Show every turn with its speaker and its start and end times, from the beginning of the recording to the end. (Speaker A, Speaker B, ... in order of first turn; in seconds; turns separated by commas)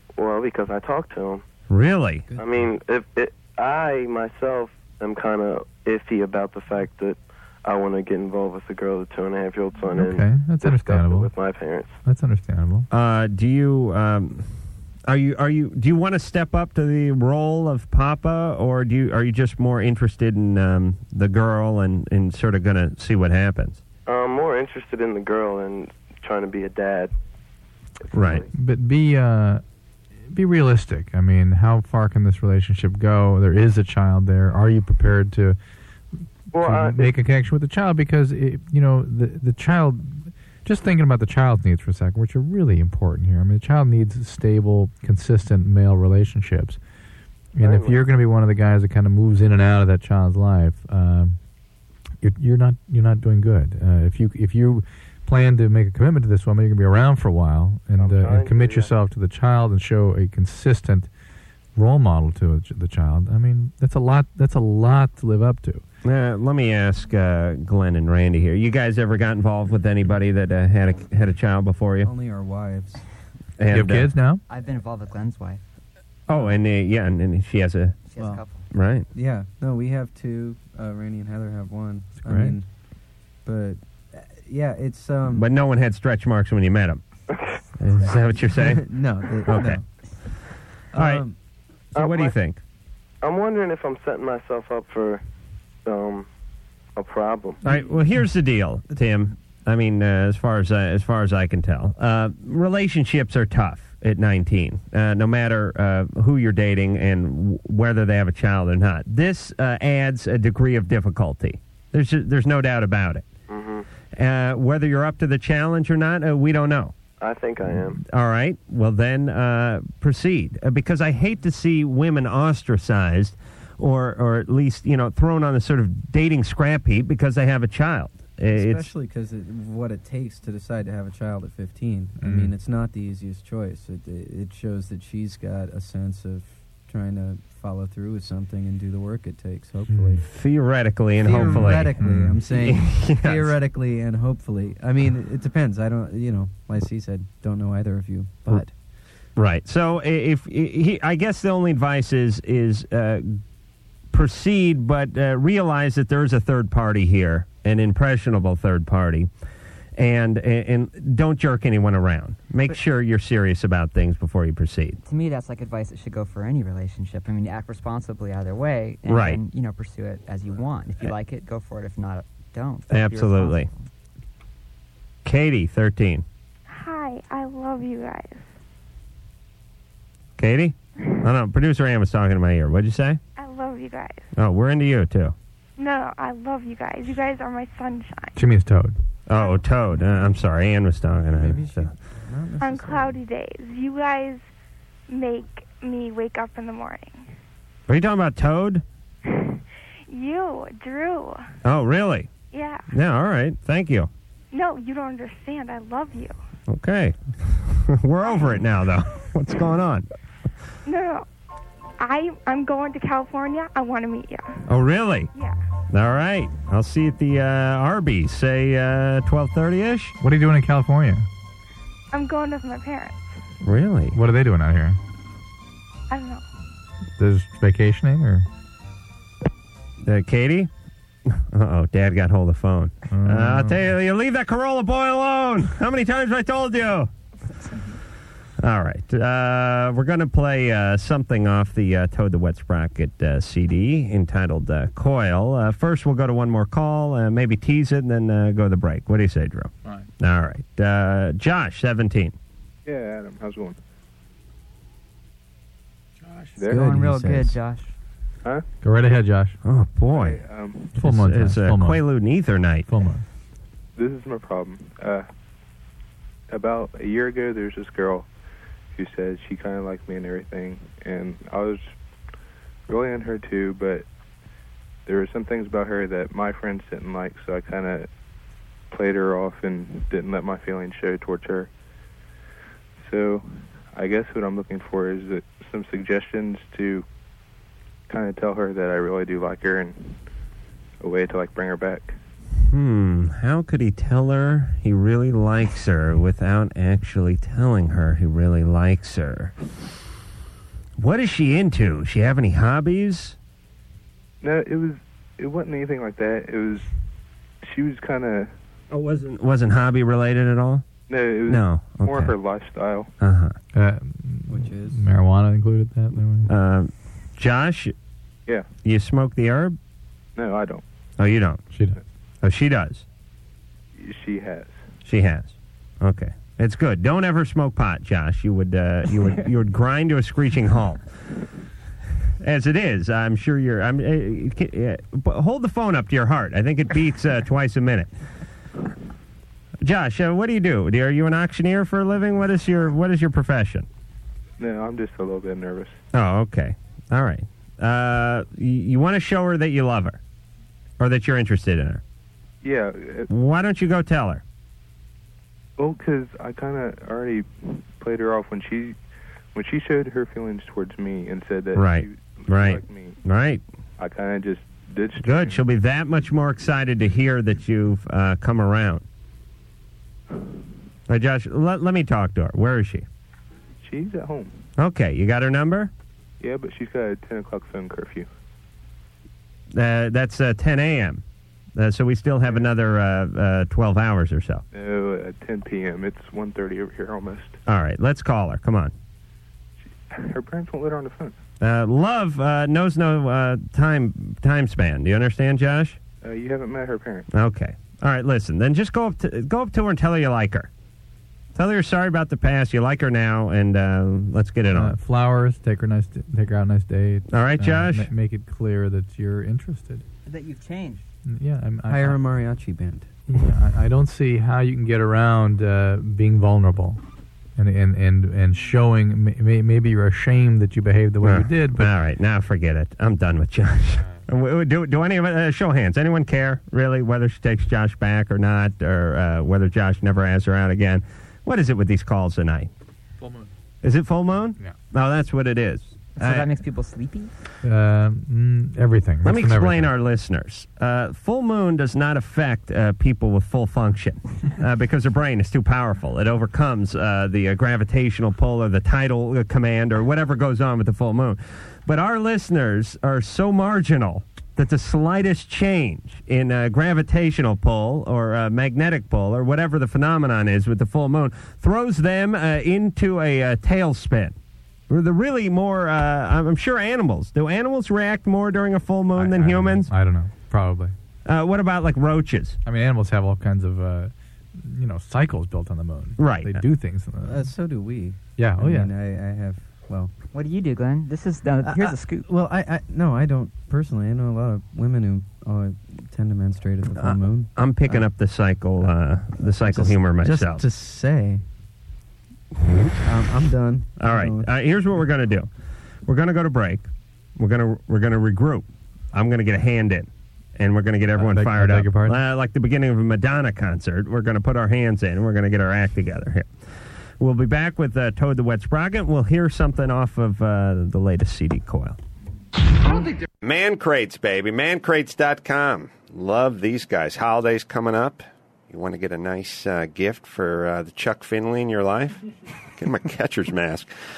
Speaker A: 0.2-1.4, Speaker B: 1.7-2.3, Speaker A: 2.4-11.9, Speaker C: 9.9-11.3, Speaker C: 12.0-12.9, Speaker B: 12.9-14.5, Speaker B: 15.1-23.8, Speaker A: 24.1-27.1, Speaker B: 28.1-28.4, Speaker A: 28.1-28.5, Speaker C: 28.5-29.6, Speaker C: 30.3-35.6, Speaker A: 36.5-37.1, Speaker C: 36.5-46.8, Speaker C: 47.5-51.4, Speaker A: 47.6-48.0, Speaker C: 52.2-61.1, Speaker A: 58.0-58.9, Speaker C: 61.8-65.8, Speaker B: 66.0-72.1, Speaker D: 72.0-73.0, Speaker B: 73.6-74.1, Speaker C: 73.7-74.4, Speaker E: 74.5-75.6, Speaker B: 76.3-78.0, Speaker E: 78.0-78.7, Speaker D: 78.2-78.4, Speaker B: 78.7-79.0, Speaker D: 79.1-82.7, Speaker C: 82.2-82.5, Speaker D: 83.4-85.5, Speaker B: 85.3-87.0, Speaker B: 87.8-88.8, Speaker D: 88.5-89.9, Speaker B: 89.5-89.8, Speaker D: 90.9-91.3, Speaker B: 91.0-91.2, Speaker A: 91.9-92.3, Speaker B: 91.9-92.6, Speaker A: 93.2-95.2, Speaker A: 95.8-96.2, Speaker A: 97.0-97.6, Speaker B: 97.6-113.3, Speaker A: 113.5-113.8, Speaker B: 114.1-116.9, Speaker A: 117.2-118.0, Speaker B: 118.0-128.9, Speaker D: 128.5-140.2, Speaker C: 132.2-132.5, Speaker C: 139.9-140.2, Speaker B: 140.2-142.0, Speaker D: 141.2-148.7, Speaker C: 141.4-142.4, Speaker B: 142.5-143.5, Speaker B: 149.3-153.4, Speaker B: 154.1-159.3, Speaker B: 160.0-165.0, Speaker E: 165.0-173.9, Speaker B: 169.1-169.4, Speaker B: 172.9-173.7, Speaker B: 175.2-176.2, Speaker F: 176.7-178.5, Speaker B: 180.4-183.2, Speaker F: 183.3-184.3, Speaker B: 184.3-185.3, Speaker F: 185.8-188.4, Speaker C: 188.3-188.9, Speaker B: 189.3-191.9, Speaker F: 189.3-189.6, Speaker D: 191.3-193.2, Speaker F: 192.6-194.5, Speaker F: 195.1-197.3, Speaker B: 197.9-198.8, Speaker F: 199.3-201.4, Speaker B: 201.6-202.3, Speaker F: 202.5-202.9, Speaker B: 202.9-204.1, Speaker F: 204.5-206.3, Speaker B: 206.7-210.1, Speaker F: 208.2-208.5, Speaker F: 210.8-211.3, Speaker F: 212.0-214.6, Speaker B: 214.7-215.3, Speaker B: 215.9-220.1, Speaker C: 220.2-221.2, Speaker F: 222.1-223.3, Speaker B: 223.6-224.2, Speaker C: 224.1-225.0, Speaker F: 226.1-226.4, Speaker C: 227.2-228.5, Speaker B: 230.0-230.7, Speaker B: 231.3-237.1, Speaker C: 233.1-233.8, Speaker B: 238.6-252.3, Speaker G: 252.8-253.8, Speaker G: 256.6-256.9, Speaker E: 256.6-257.9, Speaker D: 256.7-257.6, Speaker C: 258.8-259.6, Speaker B: 259.6-260.4, Speaker G: 260.1-261.0, Speaker C: 260.9-262.0, Speaker B: 261.0-262.9, Speaker C: 262.9-263.2, Speaker G: 263.9-265.2, Speaker G: 266.5-268.3, Speaker G: 268.9-271.9, Speaker G: 272.9-274.0, Speaker G: 275.1-278.1, Speaker G: 278.9-281.7, Speaker G: 283.0-287.0, Speaker G: 288.1-290.2, Speaker G: 291.0-292.2, Speaker B: 292.7-299.5, Speaker B: 301.0-303.4, Speaker G: 304.4-306.9, Speaker G: 307.6-308.5, Speaker B: 308.9-310.8, Speaker G: 311.1-313.1, Speaker B: 311.5-312.3, Speaker B: 313.2-313.5, Speaker C: 313.7-316.5, Speaker D: 314.5-315.0, Speaker B: 316.5-317.9, Speaker B: 318.8-319.8, Speaker G: 320.4-320.8, Speaker B: 321.2-321.6, Speaker C: 321.7-322.0, Speaker B: 322.4-323.0, Speaker G: 323.9-324.8, Speaker B: 325.0-331.0, Speaker B: 332.4-338.1, Speaker B: 339.8-343.9, Speaker G: 344.6-346.0, Speaker B: 346.1-350.2, Speaker B: 351.0-352.0, Speaker G: 352.6-353.3, Speaker B: 353.3-354.4, Speaker G: 355.8-359.0, Speaker G: 359.5-363.2, Speaker B: 361.7-363.6, Speaker G: 364.0-365.6, Speaker B: 365.2-369.0, Speaker B: 371.1-373.1, Speaker G: 373.8-374.6, Speaker B: 374.8-375.9, Speaker G: 376.4-378.3, Speaker B: 379.7-381.2, Speaker B: 381.8-384.6, Speaker G: 384.7-387.6, Speaker B: 387.6-388.9, Speaker G: 390.1-391.4, Speaker B: 391.6-396.0, Speaker G: 396.2-397.3, Speaker B: 397.3-400.7, Speaker B: 401.5-404.9, Speaker C: 404.7-410.0, Speaker B: 407.3-408.1, Speaker E: 410.2-411.0, Speaker C: 411.3-412.2, Speaker D: 411.9-413.1, Speaker C: 413.3-417.0, Speaker C: 417.6-421.9, Speaker B: 421.2-432.7, Speaker C: 433.2-433.5, Speaker B: 433.8-436.6, Speaker E: 436.2-437.3, Speaker C: 437.6-439.9, Speaker B: 439.2-464.4, Speaker B: 464.9-469.9, Speaker C: 469.1-470.9, Speaker B: 471.2-472.6, Speaker C: 472.6-477.5, Speaker B: 476.2-476.6, Speaker D: 477.2-480.1, Speaker C: 478.4-478.9, Speaker E: 480.3-482.3, Speaker D: 481.6-488.1, Speaker B: 487.0-490.6, Speaker D: 488.8-491.4, Speaker D: 493.0-494.5, Speaker B: 494.0-495.5, Speaker B: 496.1-506.5, Speaker C: 501.1-502.2, Speaker B: 507.2-512.0, Speaker H: 513.4-522.2, Speaker H: 522.8-523.9